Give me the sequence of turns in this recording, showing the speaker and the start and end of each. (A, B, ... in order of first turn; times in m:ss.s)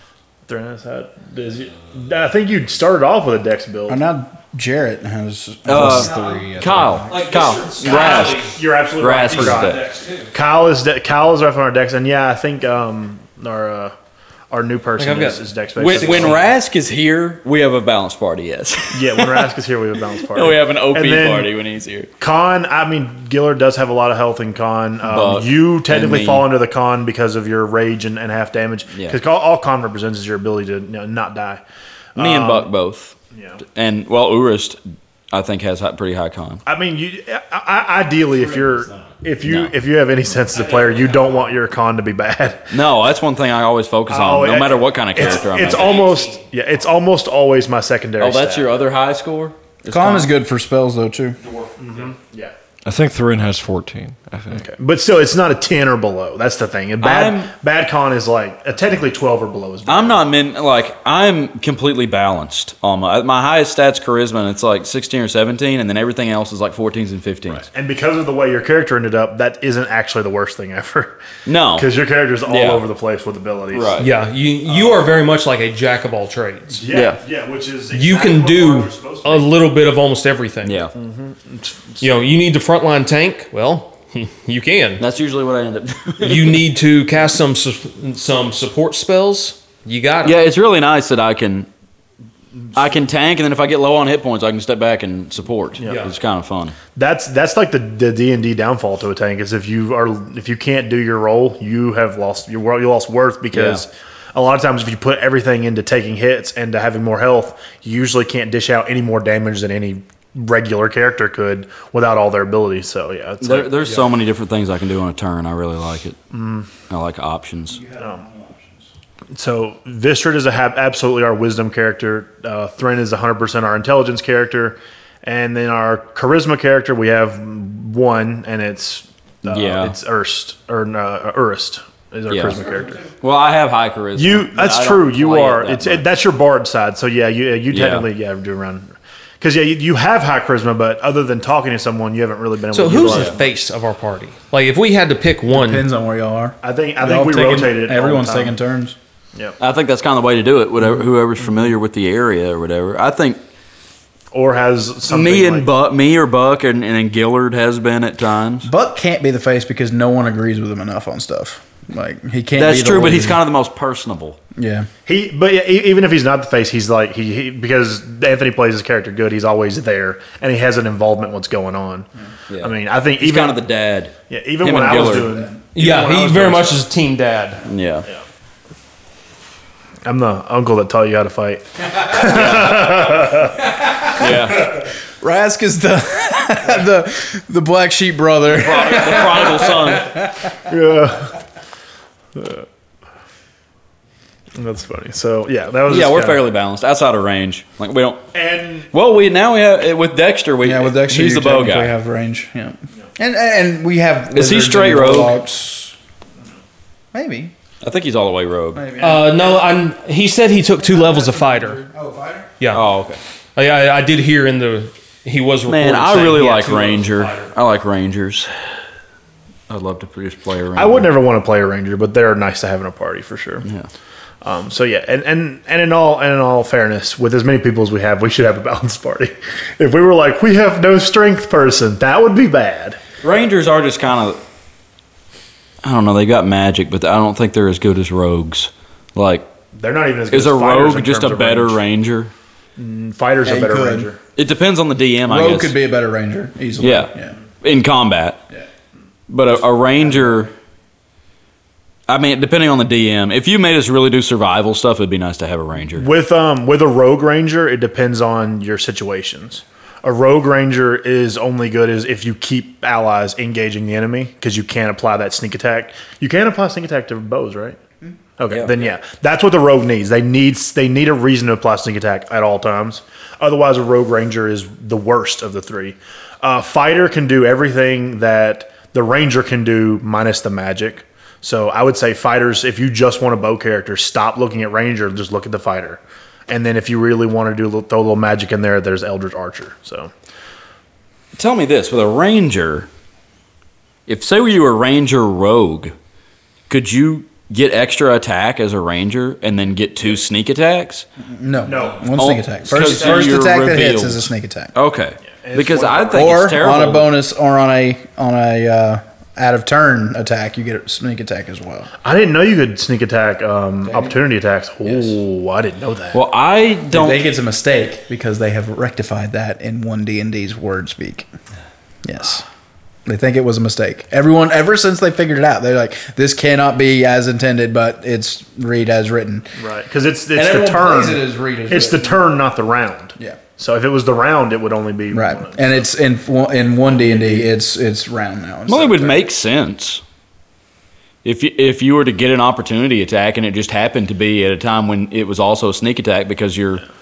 0:00.5-0:04.0 A
0:03.9-0:06.2 B
0:05.7-0:09.8 C
0:05.7-0:07.1 D
0:06.0-0:06.4 E
0:07.1-0:08.6 E
0:07.8-0:13.9 A
0:09.3-0:10.3 E
0:14.5-0:16.4 A
0:15.0-0:16.4 E
0:15.8-0:19.5 C
0:18.9-0:21.5 A
0:20.2-0:22.1 C
0:22.2-0:31.6 A
0:25.0-0:26.5 C
0:28.9-0:29.2 C
0:32.1-0:32.7 A
0:32.2-0:34.8 C
0:33.3-0:33.6 A
0:35.3-0:36.6 C
0:36.6-0:42.8 A
0:39.4-0:39.7 C
0:40.7-0:41.0 E
0:42.7-0:46.0 C
0:44.1-0:48.8 A
0:45.6-0:46.4 E
0:48.2-0:50.3 C
0:49.9-0:51.4 B
0:51.8-0:52.5 A
0:52.8-0:54.7 D
0:54.5-1:00.2 A
0:57.0-0:57.5 C
0:59.8-1:07.6 C
1:07.6-1:11.2 A
1:11.4-1:11.9 C
1:11.7-1:14.0 A
1:12.4-1:12.8 C
1:13.7-1:14.1 C
1:14.0-1:16.8 E
1:14.7-1:15.1 A
1:16.7-1:19.5 A
1:16.9-1:17.2 C
1:17.9-1:20.9 E
1:20.6-1:20.9 C
1:21.0-1:22.0 A
1:22.0-1:25.0 E
1:25.0-1:26.7 C
1:26.2-1:30.4 E
1:30.2-1:31.7 C
1:32.7-1:36.8 C
1:35.8-1:36.0 A
1:35.8-1:36.1 E
1:36.9-1:54.1 A
1:43.5-1:43.8 C
1:53.4-1:56.2 C
1:56.3-1:56.7 A
1:56.9-1:57.8 C
1:57.7-1:58.8 B
1:58.0-1:58.2 A
1:59.3-2:13.0 A
2:09.5-2:09.9 C
2:12.3-2:16.0 C
2:14.2-2:23.5 A
2:17.7-2:18.1 C
2:22.7-2:25.8 E
2:23.0-2:23.3 C
2:25.5-2:29.0 B
2:26.6-2:28.6 A
2:29.6-2:33.4 C
2:34.3-2:35.7 A
2:35.1-2:38.7 C
2:38.6-2:43.4 B
2:42.5-2:44.4 C
2:44.6-2:44.9 B
2:45.0-2:52.1 A
2:52.5-2:55.5 C
2:52.6-2:53.6 A
2:54.3-2:56.8 A
2:54.9-2:55.5 B
2:55.7-2:57.6 E
2:57.6-2:58.1 C
3:00.0-3:03.6 A
3:02.1-3:03.3 C
3:04.1-3:04.8 C
3:05.2-3:10.5 B
3:08.5-3:10.2 C
3:10.7-3:11.3 A
3:12.4-3:12.6 A
3:14.6-3:16.4 A
3:15.9-3:18.2 C
3:18.3-3:18.9 A
3:18.9-3:21.9 C
3:20.6-3:25.9 B
3:24.3-3:25.4 C
3:27.1-3:27.5 B
3:27.8-3:28.9 C
3:28.7-3:29.7 B
3:29.0-3:31.8 E
3:30.7-3:32.5 B
3:32.6-3:32.8 E
3:32.7-3:33.2 C
3:33.6-3:37.5 E
3:35.7-3:38.5 C
3:39.7-3:41.1 C
3:40.7-3:43.6 A
3:44.4-3:53.0 A
3:53.2-3:54.4 C
3:55.8-3:59.5 C
3:59.7-4:01.8 A
4:00.3-4:02.3 C
4:02.8-4:04.2 A
4:03.4-4:04.1 B
4:04.4-4:05.7 C
4:05.3-4:07.4 B
4:06.8-4:08.4 C
4:09.3-4:10.5 C
4:10.0-4:10.5 B
4:12.1-4:16.1 C
4:15.9-4:27.8 A
4:28.4-4:50.1 A
4:28.5-4:28.7 C
4:51.3-4:52.9 C
4:54.1-4:55.9 C
4:56.7-5:01.0 C
5:01.3-5:04.7 B
5:01.6-5:02.1 A
5:02.1-5:07.1 C
5:02.7-5:03.4 A
5:05.4-5:06.5 A
5:06.2-5:11.9 B
5:12.0-5:16.2 A
5:13.8-5:14.1 B
5:16.1-5:17.2 C
5:16.9-5:21.3 B
5:22.0-5:22.4 B
5:23.0-5:29.5 B
5:29.6-5:35.9 A
5:30.3-5:32.2 B
5:35.1-5:39.2 B
5:36.8-5:37.5 A
5:38.7-5:40.0 C
5:41.2-5:46.8 C